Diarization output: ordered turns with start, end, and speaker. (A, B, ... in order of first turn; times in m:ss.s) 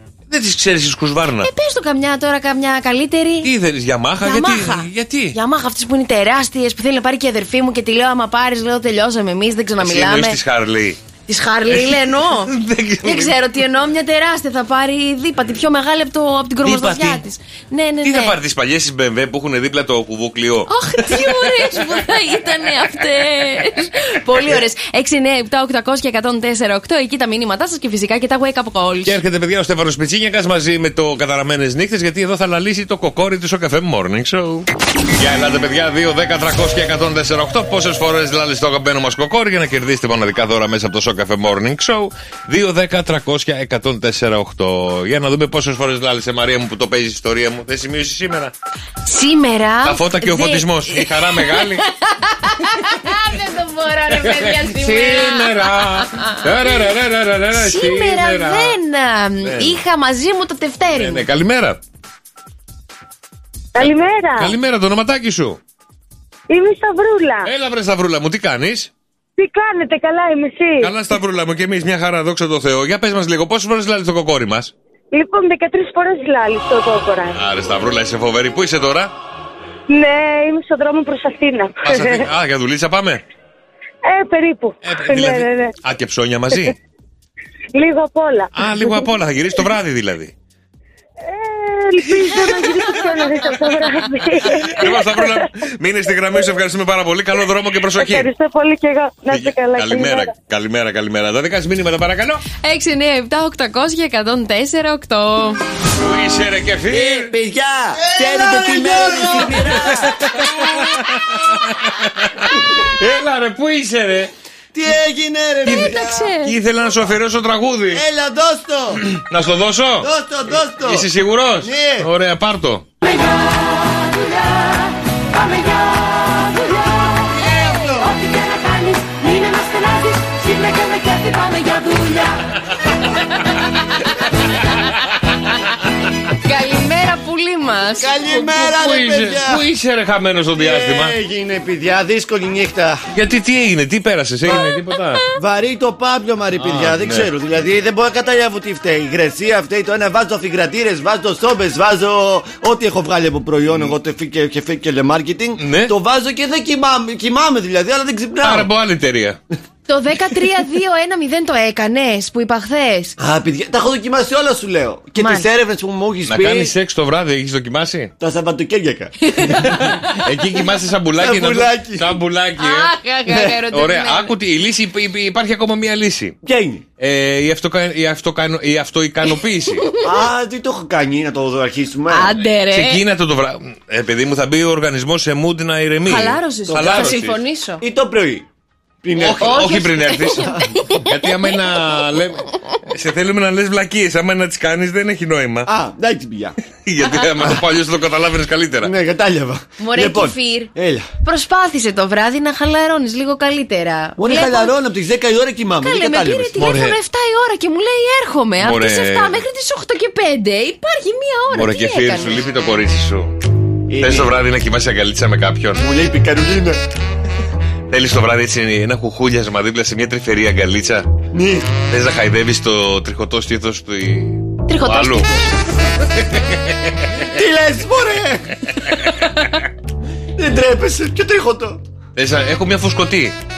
0:00.3-0:01.5 A
0:01.4-0:03.5 B
0:03.4-0:05.4 A
0:04.2-0:10.4 B
0:09.8-0:11.0 A
0:11.3-0:12.5 B
0:11.7-0:13.4 A
0:13.0-0:18.4 B
0:16.6-0:17.2 A
0:18.0-0:22.0 A
0:20.7-0:29.2 B
0:29.1-0:48.5 A
0:49.1-0:56.8 B
0:49.8-0:51.8 A
0:54.2-0:58.8 A
0:57.5-1:01.2 B
0:59.4-0:59.8 A
1:00.9-1:01.8 A
1:03.8-1:04.5 C
1:04.4-1:05.6 A
1:06.5-1:07.5 C
1:07.4-1:08.9 A
1:09.4-1:10.9 C
1:10.8-1:14.7 A
1:15.1-1:17.4 C
1:17.3-1:19.1 A
1:19.9-1:22.3 C
1:21.8-1:23.2 A
1:24.0-1:25.8 C
1:24.8-1:26.8 A
1:27.8-1:29.0 C
1:28.5-1:30.3 A
1:31.2-1:35.4 C
1:32.2-1:33.5 A
1:34.4-1:38.3 A
1:37.9-1:40.3 C
1:39.3-1:42.4 A
1:42.6-1:45.6 B
1:46.0-1:47.3 A
1:46.9-1:50.2 D
1:48.2-1:49.9 B
1:49.4-1:54.3 A
1:54.7-1:56.2 D
1:55.6-1:56.5 B
1:55.6-1:58.0 A
1:57.9-1:59.0 D
1:59.1-2:00.1 A
2:00.0-2:02.1 D
2:00.8-2:02.9 A
2:07.3-2:08.1 D
2:09.1-2:12.0 B
2:16.4-2:18.5 B
2:18.0-2:19.7 D
2:18.4-2:21.2 A
2:20.6-2:23.0 D
2:23.1-2:25.2 A
2:25.4-2:38.7 D
2:26.6-2:27.3 A
2:35.6-2:35.9 A
2:38.4-2:39.4 A
2:39.9-2:43.2 B
2:43.2-2:46.7 D
2:45.2-2:45.5 B
2:46.3-2:48.1 A
2:48.2-2:49.1 D
2:49.2-2:49.9 B
2:49.7-2:52.9 A
2:51.2-2:52.2 D
2:52.6-2:54.3 B
2:53.7-2:56.4 A
2:56.4-2:56.8 D
2:57.0-2:59.9 A
2:59.9-3:00.2 B
3:00.0-3:02.3 D
3:02.1-3:03.0 B
3:02.7-3:07.4 A
3:06.1-3:07.8 B
3:06.7-3:07.2 D
3:07.8-3:08.4 D
3:09.0-3:09.8 D
3:09.2-3:15.7 A
3:09.2-3:11.1 B
3:15.7-3:16.6 D
3:16.8-3:18.9 A
3:18.8-3:21.1 D
3:19.8-3:20.7 B
3:21.2-3:24.7 B
3:24.2-3:26.6 D
3:25.8-3:32.4 B
3:26.6-3:27.0 A
3:28.6-3:29.4 A
3:31.5-3:33.4 A
3:33.9-3:34.3 D
3:34.0-3:35.8 A
3:35.8-3:36.8 D
3:37.9-3:41.1 A
3:41.3-3:41.8 D
3:41.9-3:45.3 A
3:44.7-3:45.5 B
3:46.3-3:47.1 A
3:47.3-3:48.5 D
3:50.4-3:51.8 D
3:52.2-3:53.4 A